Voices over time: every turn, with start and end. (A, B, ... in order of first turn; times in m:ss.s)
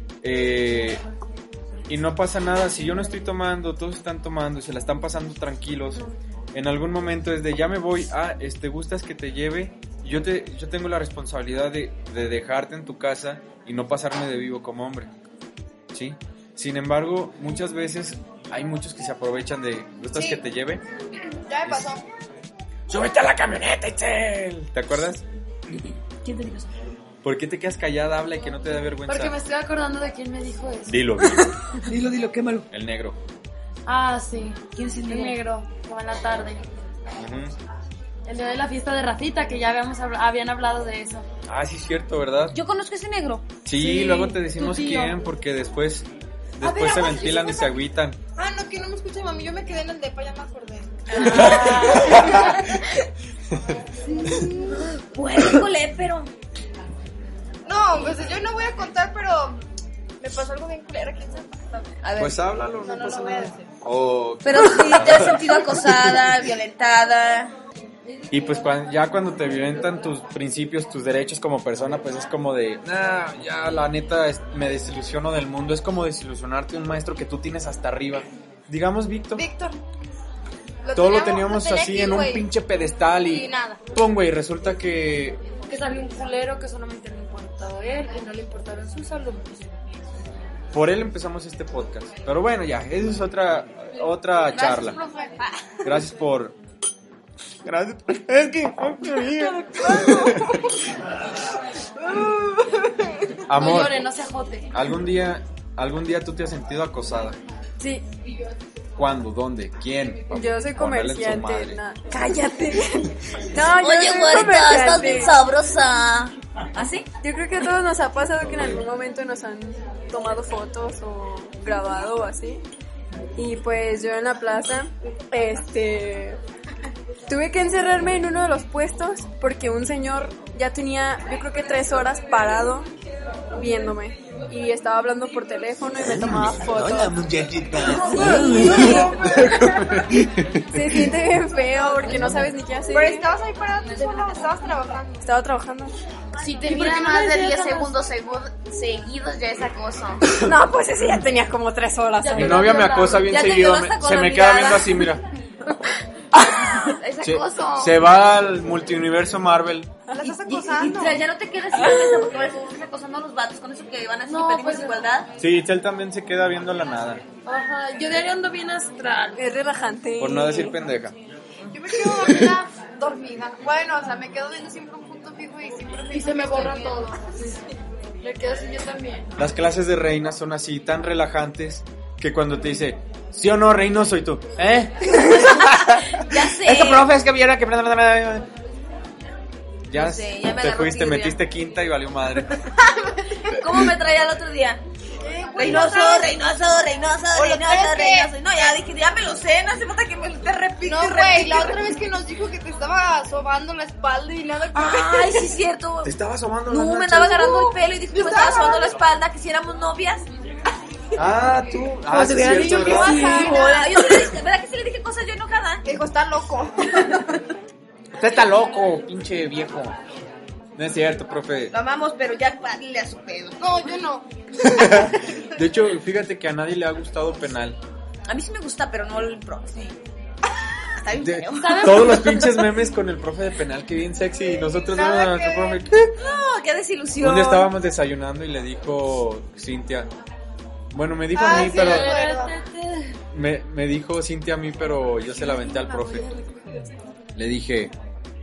0:00.2-0:01.0 A
0:01.9-0:15.1 A
0:15.9-0:20.8 A
0:20.1-0:20.4 B
0:21.5-0:22.0 B
0:21.6-0:21.9 A
0:22.9-0:25.2 A
0:26.2-0:26.7 C
0:27.2-0:29.4 A
0:29.1-0:31.0 D
0:30.9-0:31.5 A
0:31.9-0:32.7 C
0:32.7-0:33.2 A
0:33.9-0:36.7 D
0:34.8-0:35.4 C
0:37.2-0:37.5 A
0:38.3-0:41.3 D
0:41.5-0:42.6 A
0:42.5-0:43.4 C
0:43.6-0:48.2 A
0:43.8-0:45.2 D
0:46.6-0:47.8 B
0:48.4-0:51.7 B
0:51.1-0:52.4 C
0:51.2-0:53.0 A
0:51.2-0:52.3 D
0:54.2-0:54.8 B
0:54.8-0:56.3 C
0:57.7-0:59.6 B
1:00.2-1:02.0 B
1:02.0-1:02.4 C
1:02.2-1:06.2 A
1:02.8-1:03.7 B
1:04.4-1:07.5 C
1:08.3-1:19.4 A
1:19.4-1:19.8 B
1:20.8-1:22.5 B
1:20.9-1:25.4 A
1:23.2-1:23.8 B
1:25.7-1:29.7 D
1:30.7-1:35.0 A
1:34.5-1:35.5 B
1:35.8-1:36.6 A
1:37.7-1:40.8 A
1:39.7-1:40.7 B
1:42.0-1:43.1 B
1:43.5-1:44.0 A
1:43.5-1:44.7 D
1:44.7-1:47.4 A
1:47.8-1:48.0 E
1:49.0-1:51.8 A
1:50.3-1:52.8 E
1:52.2-1:52.8 C
1:53.5-1:55.4 E
1:53.6-1:57.0 C
1:57.2-2:02.6 E
1:58.4-1:58.8 A
2:03.4-2:06.4 E
2:07.3-2:12.9 E
2:13.6-2:17.2 E
2:16.0-2:21.1 A
2:17.8-2:19.1 C
2:18.2-2:19.7 B
2:20.7-2:23.3 E
2:22.0-2:22.5 A
2:22.9-2:25.3 B
2:25.2-2:25.9 E
2:26.4-2:28.0 D
2:26.6-2:30.2 F
2:30.3-2:33.1 E
2:32.2-2:33.3 D
2:32.4-2:35.3 A
2:33.2-2:35.0 C
2:36.9-2:37.9 F
2:37.2-2:39.9 A
2:40.1-2:41.2 B
2:40.2-2:45.3 C
2:44.3-2:45.0 D
2:45.4-2:47.2 A
2:47.5-2:49.5 D
2:49.4-2:50.8 E
2:50.2-2:51.2 A
2:51.7-2:57.5 B
2:56.1-2:57.6 D
2:58.2-2:59.3 D
2:59.4-3:08.5 A
3:06.1-3:07.1 C
3:09.9-3:12.6 A
3:09.9-3:11.4 C
3:12.8-3:13.5 B
3:13.5-3:14.8 C
3:15.2-3:16.3 B
3:15.5-3:22.0 C
3:17.4-3:18.8 B
3:20.8-3:25.5 B
3:24.7-3:26.1 C
3:26.0-3:27.5 A
3:26.7-3:30.2 C
3:27.3-3:29.0 B
3:31.2-3:33.4 A
3:32.1-3:35.8 C
3:32.4-3:34.3 B
3:35.8-3:37.4 B
3:38.1-3:40.0 A
3:40.8-3:41.7 A
3:41.7-3:43.6 C
3:43.6-3:45.0 B
3:44.6-3:47.8 A
3:48.3-3:49.9 C
3:51.0-3:52.1 C
3:51.2-3:56.1 A
3:51.6-3:52.7 D
3:54.7-3:55.8 B
3:56.2-3:57.7 C
3:57.2-4:00.1 A
4:00.9-4:02.2 A
4:01.3-4:02.5 B
4:01.4-4:03.2 D
4:03.3-4:06.3 A
4:07.4-4:07.9 A